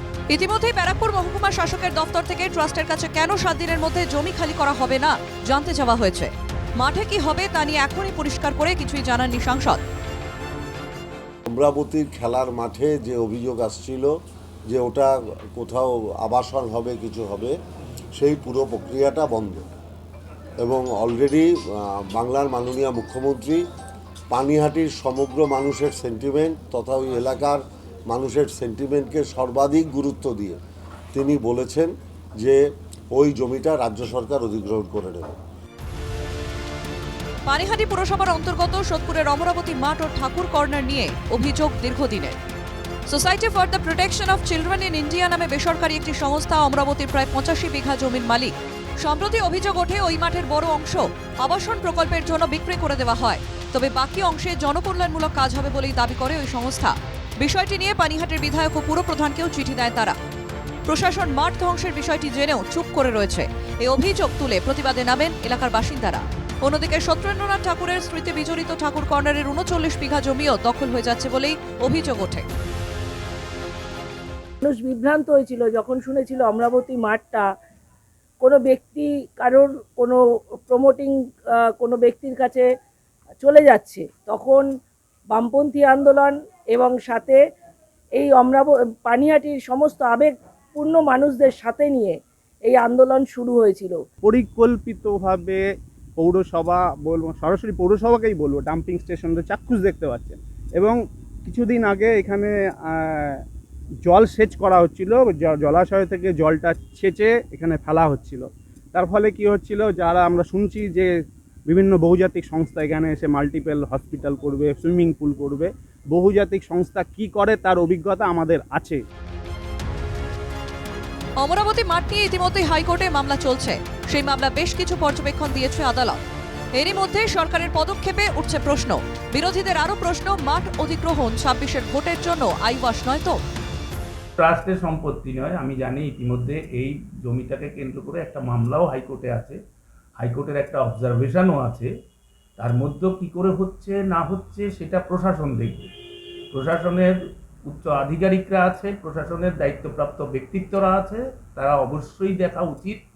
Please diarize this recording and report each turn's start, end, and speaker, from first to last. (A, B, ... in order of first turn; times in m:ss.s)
0:00.3-0:09.8 A
0:11.5-0:14.1 B
0:14.7-0:17.5 B
0:18.2-0:19.7 B
0:20.6-0:23.6 B
0:24.3-0:30.6 B
0:31.1-0:32.6 B
0:33.1-0:35.4 B
0:37.5-0:42.4 A
0:43.1-1:00.2 A
1:00.8-1:12.5 A
1:14.6-1:17.5 C
1:18.4-1:21.2 C
1:21.7-1:22.7 C
1:23.4-1:24.6 C
1:25.3-1:27.4 C
1:28.2-1:34.0 C
1:34.2-1:35.6 D
1:36.2-1:43.4 D
1:44.1-1:51.1 D
1:51.7-1:59.0 D
2:01.4-2:06.2 A
2:06.8-2:13.4 A
2:14.4-2:19.6 E
2:20.2-2:21.9 E
2:22.6-2:25.9 E
2:26.5-2:27.1 E
2:27.7-2:33.0 E